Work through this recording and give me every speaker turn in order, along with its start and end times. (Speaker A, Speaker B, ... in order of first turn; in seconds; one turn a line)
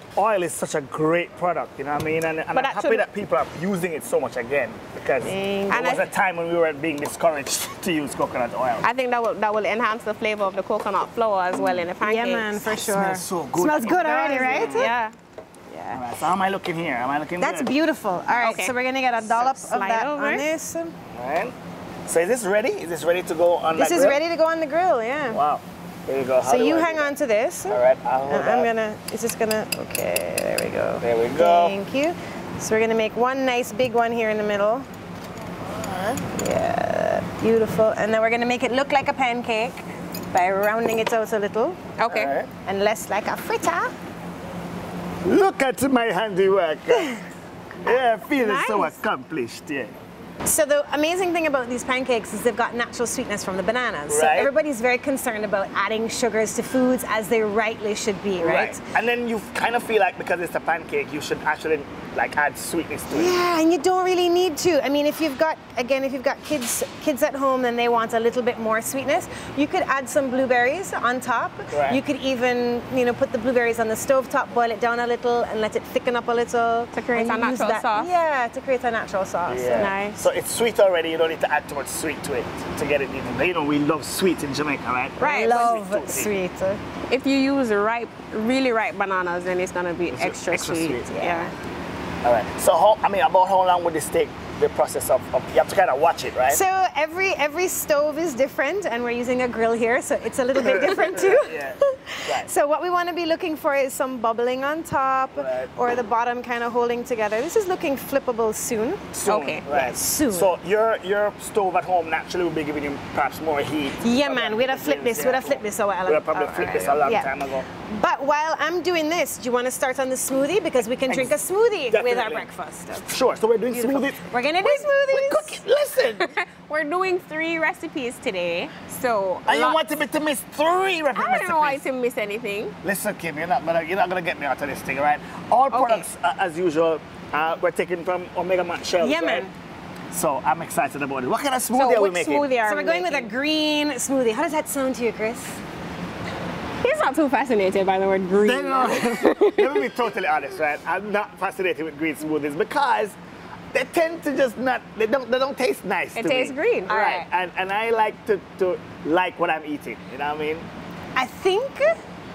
Speaker A: 0.1-8.9
Speaker B: 2.5-3.0
Speaker C: 5.2-6.0
Speaker B: 5.7-6.0
Speaker B: 8.8-12.6
Speaker A: 11.5-11.9
Speaker C: 12.0-14.9
Speaker A: 12.7-14.9
Speaker B: 13.9-15.1
Speaker C: 15.7-16.0
Speaker A: 15.9-17.7
Speaker C: 17.4-20.9
Speaker B: 18.4-20.5
Speaker A: 21.1-21.5
Speaker A: 22.1-24.2
Speaker C: 23.8-25.4
Speaker A: 25.3-27.1
Speaker C: 26.4-34.9
Speaker A: 27.7-28.7
Speaker A: 31.0-31.8
Speaker A: 35.7-36.2
Speaker C: 36.2-41.8
Speaker B: 42.0-42.3
Speaker A: 42.1-42.5
Speaker C: 42.6-43.9
Speaker A: 45.2-47.2
Speaker A: 47.8-49.9
Speaker B: 48.4-48.9
Speaker C: 50.4-58.8
Speaker A: 54.1-54.5
Speaker A: 58.4-63.4
Speaker C: 63.1-80.2
Speaker A: 71.7-72.0
Speaker B: 76.9-78.1
Speaker A: 79.5-86.3
Speaker B: 79.7-80.1
Speaker B: 85.2-85.8
Speaker C: 85.2-86.8
Speaker B: 87.1-91.5
Speaker A: 90.1-91.1
Speaker C: 91.1-91.5
Speaker A: 92.2-96.6
Speaker C: 96.5-109.0
Speaker A: 100.6-102.5
Speaker A: 105.3-105.7
Speaker A: 109.1-117.7
Speaker B: 109.3-109.6
Speaker C: 109.7-110.5
Speaker C: 114.0-123.1
Speaker A: 121.1-121.3
Speaker A: 121.9-122.5
Speaker A: 123.0-126.3
Speaker C: 123.7-125.6
Speaker B: 126.2-129.8
Speaker A: 129.5-131.8
Speaker B: 131.2-132.7
Speaker A: 132.8-139.5
Speaker B: 135.7-136.1
Speaker C: 139.0-139.5
Speaker A: 140.1-142.5
Speaker B: 141.7-143.3
Speaker C: 142.6-145.6
Speaker B: 146.8-149.9
Speaker A: 148.3-153.2
Speaker A: 153.7-160.7
Speaker B: 156.1-156.9
Speaker C: 156.9-157.3
Speaker C: 161.2-162.0